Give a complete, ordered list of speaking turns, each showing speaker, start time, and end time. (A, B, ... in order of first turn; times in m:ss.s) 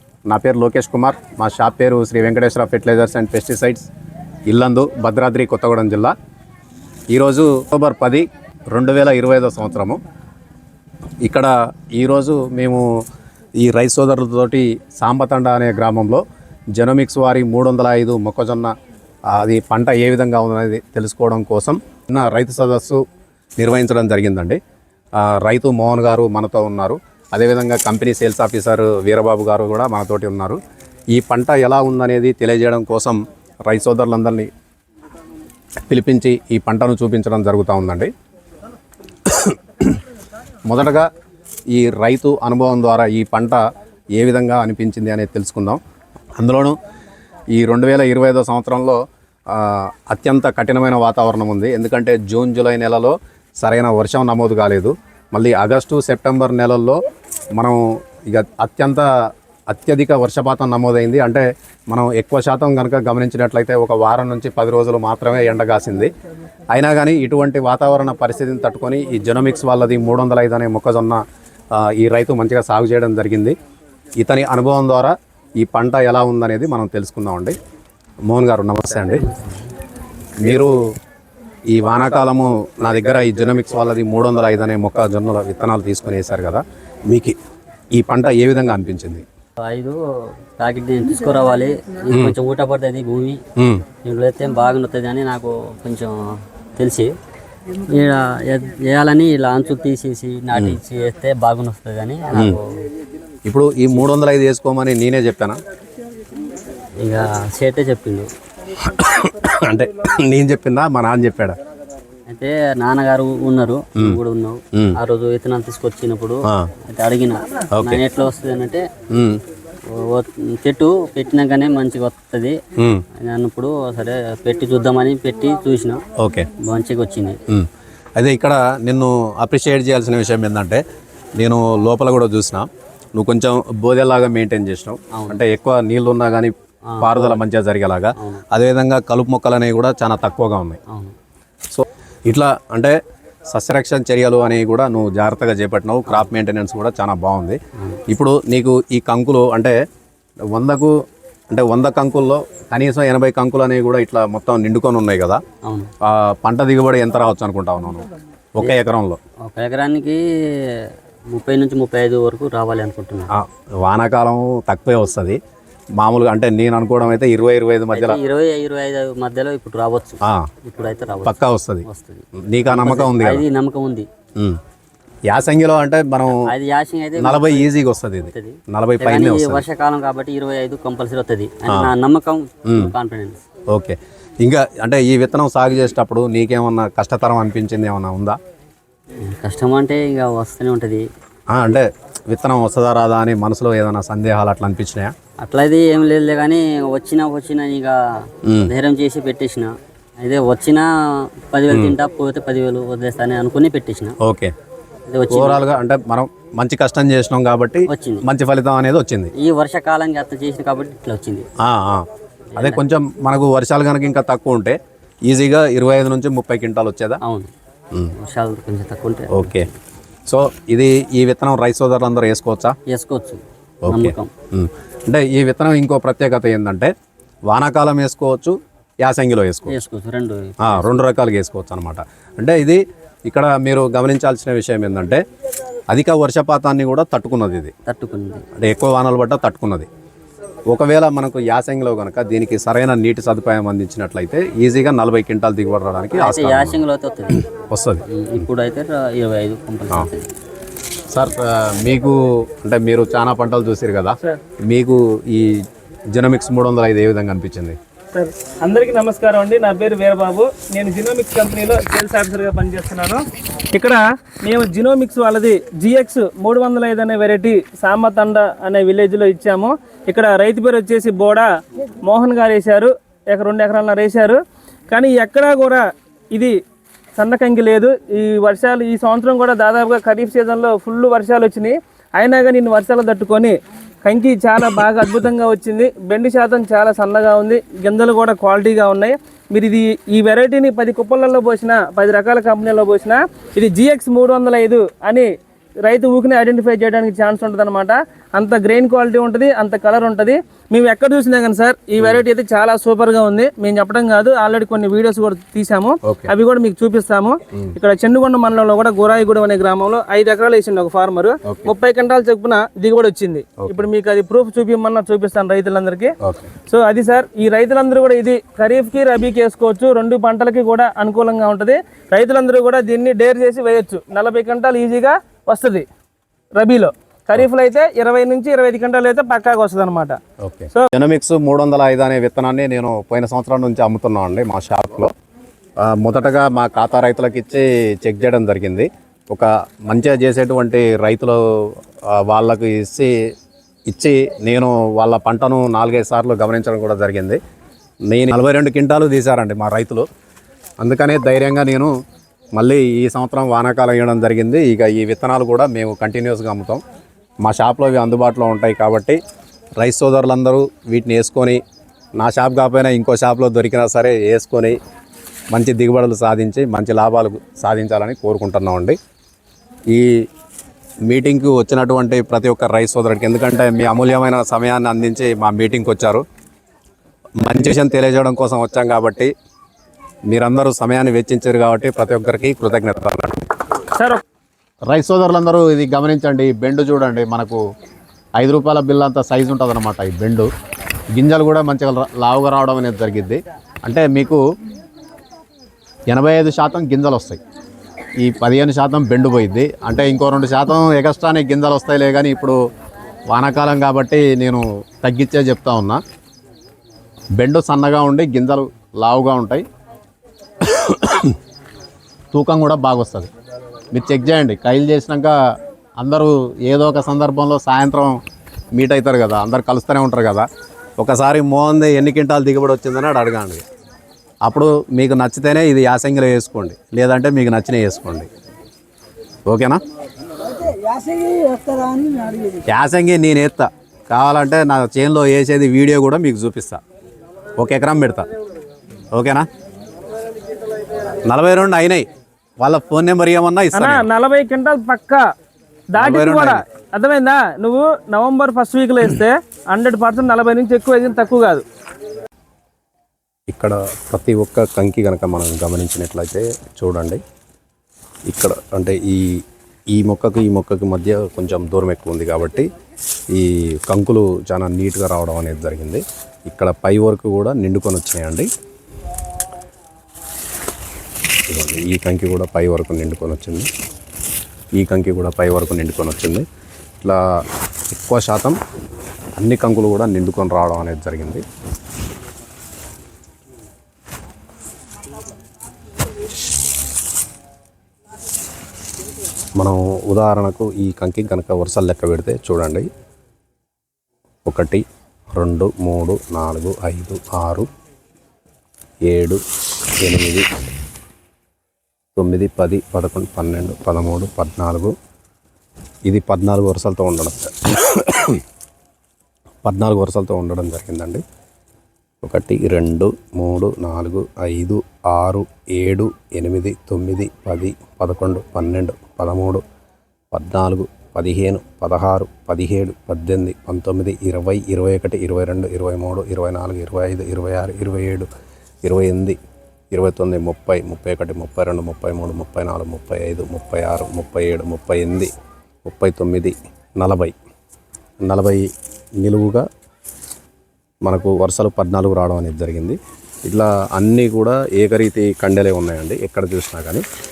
0:00.3-0:03.9 A
0:04.5-0:06.1 A
0:07.1-0:10.0 A
0:11.2-0:12.8 A
0:13.6-0:16.2 A
0:16.7-0:18.7 A
0:19.3-0:23.0 A
0:23.6-0:24.6 A
0:25.2-0:30.6 A
0:31.1-0:34.5 A
0:35.9-0:38.1 A
0:39.3-0:40.0 A
0:40.7-0:41.1 A
0:41.7-0:43.6 A
0:44.2-0:45.8 A
0:46.4-0:46.8 A
0:47.5-0:57.0 A
0:57.6-0:59.0 A
0:59.7-1:06.1 A
1:06.7-1:11.2 A
1:11.7-1:13.5 A
1:14.2-1:17.5 A
1:18.3-1:19.3 A
1:19.2-1:19.5 B
1:20.4-1:20.7 A
1:21.7-1:27.4 A
1:27.9-1:29.2 A
1:29.6-1:33.4 B
1:33.6-1:33.8 A
1:34.0-1:37.1 B
1:37.9-1:42.7 B
1:43.4-1:45.6 A
1:47.0-1:48.3 B
1:48.8-1:51.6 A
1:52.3-1:58.8 B
1:57.7-1:58.0 A
1:59.1-1:59.4 A
1:59.9-2:02.6 B
2:02.8-2:03.0 A
2:03.2-2:06.0 B
2:06.2-2:06.5 A
2:06.6-2:07.4 B
2:07.5-2:10.8 A
2:11.4-2:20.8 A
2:15.1-2:15.4 B
2:17.0-2:17.4 B
2:18.2-2:18.4 B
2:20.9-2:21.1 B
2:21.7-2:22.9 A
2:23.5-2:27.6 A
2:28.1-2:29.7 A
2:30.5-2:30.9 A
2:31.5-2:35.4 A
2:35.6-2:35.9 B
2:36.0-2:39.2 A
2:39.4-2:43.3 B
2:43.3-2:45.4 A
2:46.0-2:48.2 A
2:47.9-2:54.1 B
2:50.2-2:50.5 A
2:51.2-2:53.4 A
2:55.3-2:56.4 A
2:56.3-3:03.4 B
2:57.2-2:59.6 A
3:02.6-3:02.9 A
3:03.7-3:08.4 A
3:09.2-3:11.1 B
3:11.5-3:15.1 A
3:15.4-3:18.0 B
3:18.4-3:18.7 A
3:18.5-3:20.8 B
3:21.5-3:24.2 B
3:21.7-3:22.0 A
3:24.2-3:24.5 A
3:25.1-3:25.8 B
3:25.3-3:29.3 A
3:27.9-3:28.2 B
3:29.4-3:31.4 B
3:31.6-3:32.0 A
3:32.5-3:32.8 B
3:32.6-3:37.2 A
3:37.2-3:37.5 B
3:38.2-3:39.7 B
3:39.3-3:39.7 A
3:40.3-3:42.7 A
3:42.9-3:44.3 B
3:43.8-3:46.9 A
3:47.5-3:49.8 A
3:49.7-3:51.1 B
3:50.6-3:55.2 A
3:55.9-3:57.7 A
3:57.9-3:58.4 B
3:58.6-3:59.9 A
4:00.7-4:06.8 A
4:06.1-4:07.4 B
4:07.3-4:08.0 A
4:08.1-4:10.3 B
4:11.1-4:14.2 A
4:14.7-4:15.6 A
4:16.1-4:17.8 A
4:18.1-4:31.5 C
4:32.0-4:36.6 C
4:37.2-4:55.3 C
4:55.8-5:16.1 C
5:06.0-5:06.3 A
5:11.4-5:11.7 A
5:16.2-5:16.5 A
5:16.6-5:25.9 C
5:26.5-5:30.2 C
5:30.4-5:35.1 A
5:35.8-5:43.1 A
5:43.9-5:47.4 A
5:48.1-5:50.0 A
5:50.8-5:51.9 A
5:52.5-5:56.8 A
5:57.4-5:59.2 A
5:59.8-6:01.6 A
6:02.2-6:04.8 A
6:05.5-6:09.0 A
6:11.1-6:16.2 A
6:17.4-6:19.3 A
6:20.3-6:23.5 A
6:23.9-6:24.2 C
6:24.9-6:27.6 A
6:28.4-6:30.5 A
6:31.1-6:34.4 A
6:36.1-6:37.4 A
6:38.2-6:42.6 A
6:43.3-6:46.0 A
6:47.4-6:49.6 A
6:50.6-6:51.4 A
6:52.3-6:53.3 A
6:53.9-6:55.3 A
6:56.0-6:58.2 A
6:58.7-7:00.4 A
7:01.0-7:03.6 A
7:04.4-7:08.3 A
7:09.5-7:09.8 A
7:12.7-7:16.8 A
7:17.6-7:18.2 A
7:19.1-7:19.5 A
7:21.3-7:22.0 A
7:22.6-7:24.0 A
7:23.7-7:25.2 C
7:25.9-7:31.6 C
7:26.0-7:26.6 A
7:33.5-7:37.2 A
7:38.3-7:39.4 A
7:39.9-7:42.7 A
7:43.3-7:48.5 A
7:51.5-7:53.7 A
7:54.8-7:56.4 A
7:57.9-7:58.6 A
7:59.4-8:01.4 A
8:09.6-8:12.9 A
8:14.4-8:17.7 A
8:19.1-8:19.4 A
8:20.0-8:20.4 A
8:22.2-8:24.9 A
8:26.1-8:28.4 A
8:29.6-8:31.2 A
8:32.2-8:39.6 A
8:40.3-8:48.3 A
8:48.8-8:49.4 A
8:49.9-8:55.3 A
8:55.8-8:57.3 A
8:58.2-8:58.6 A
8:59.2-8:59.6 A
9:01.0-9:07.0 A